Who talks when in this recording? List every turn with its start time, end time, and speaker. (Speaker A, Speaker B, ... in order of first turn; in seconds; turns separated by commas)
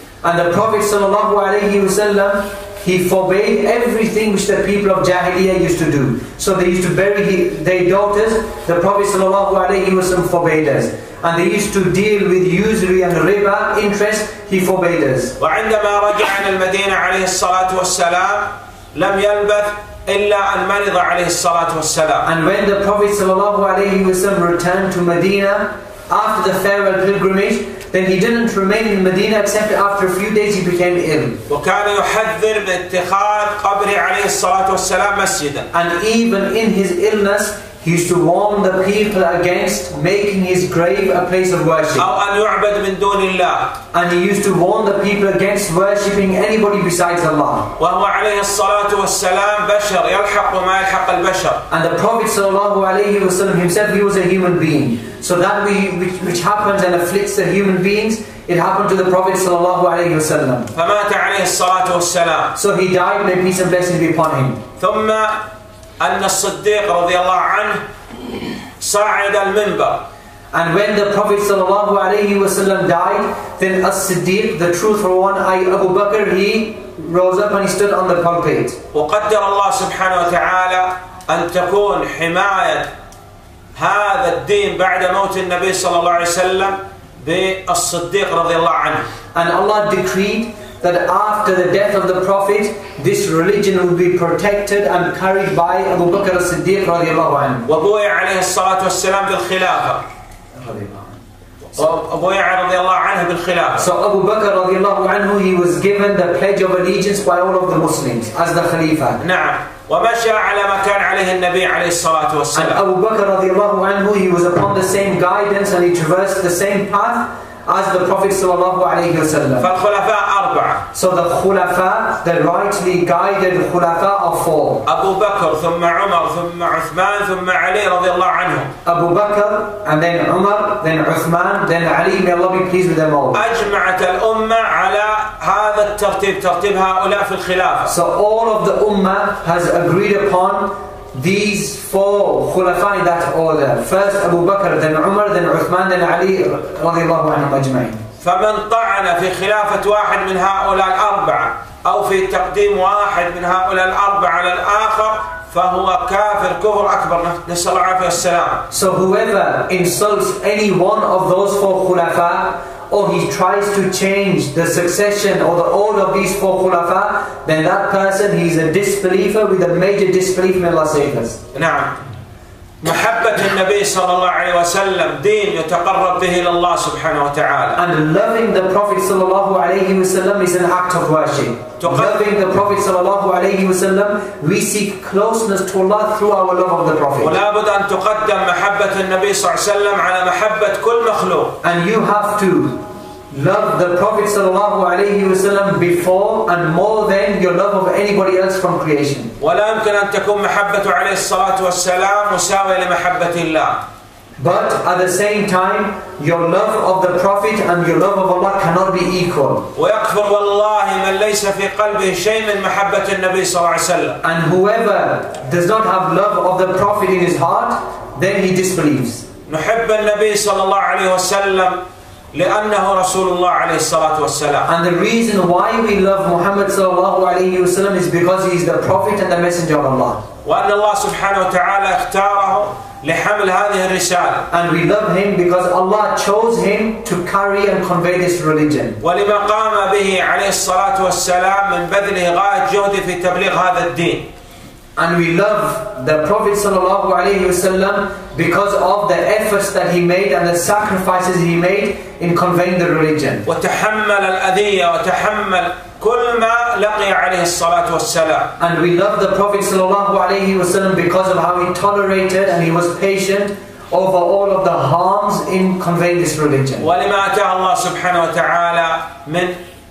Speaker A: 0.2-15.3, Speaker B: 15.4-22.3, Speaker A: 22.2-31.4, Speaker B: 31.5-35.7, Speaker A: 35.7-42.1, Speaker B: 42.0-43.8, Speaker A: 43.9-47.7, Speaker B: 47.8-51.6, Speaker A: 51.7-60.7, Speaker B: 60.7-62.5, Speaker A: 62.5-64.6, Speaker B: 64.8-65.5, Speaker B: 66.0-67.8, Speaker B: 68.8-70.0, Speaker A: 70.5-78.8, Speaker B: 78.9-82.9, Speaker B: 83.7-89.0, Speaker A: 89.3-97.7, Speaker B: 97.6-100.0, Speaker A: 100.5-101.2, Speaker B: 101.8-103.9, Speaker A: 103.8-109.2, Speaker B: 109.2-112.8, Speaker A: 112.5-119.7, Speaker B: 119.6-120.8, Speaker A: 120.9-124.8, Speaker B: 124.8-128.7, Speaker A: 128.8-133.4, Speaker B: 133.3-137.9, Speaker A: 137.9-148.0, Speaker B: 148.2-158.6, Speaker A: 158.7-171.4, Speaker B: 171.5-172.0, Speaker B: 172.8-177.8, Speaker A: 177.7-187.4, Speaker B: 181.8-182.2, Speaker B: 187.2-191.6, Speaker A: 191.6-199.3, Speaker B: 199.4-203.8, Speaker A: 204.4-209.7, Speaker B: 209.7-214.2, Speaker A: 214.2-219.2, Speaker B: 219.5-221.8, Speaker B: 222.3-224.7, Speaker A: 224.7-230.2, Speaker B: 230.4-234.5, Speaker A: 234.5-239.0, Speaker B: 239.0-244.3, Speaker A: 244.9-253.4, Speaker B: 253.4-258.5, Speaker A: 258.6-266.9, Speaker B: 266.8-269.6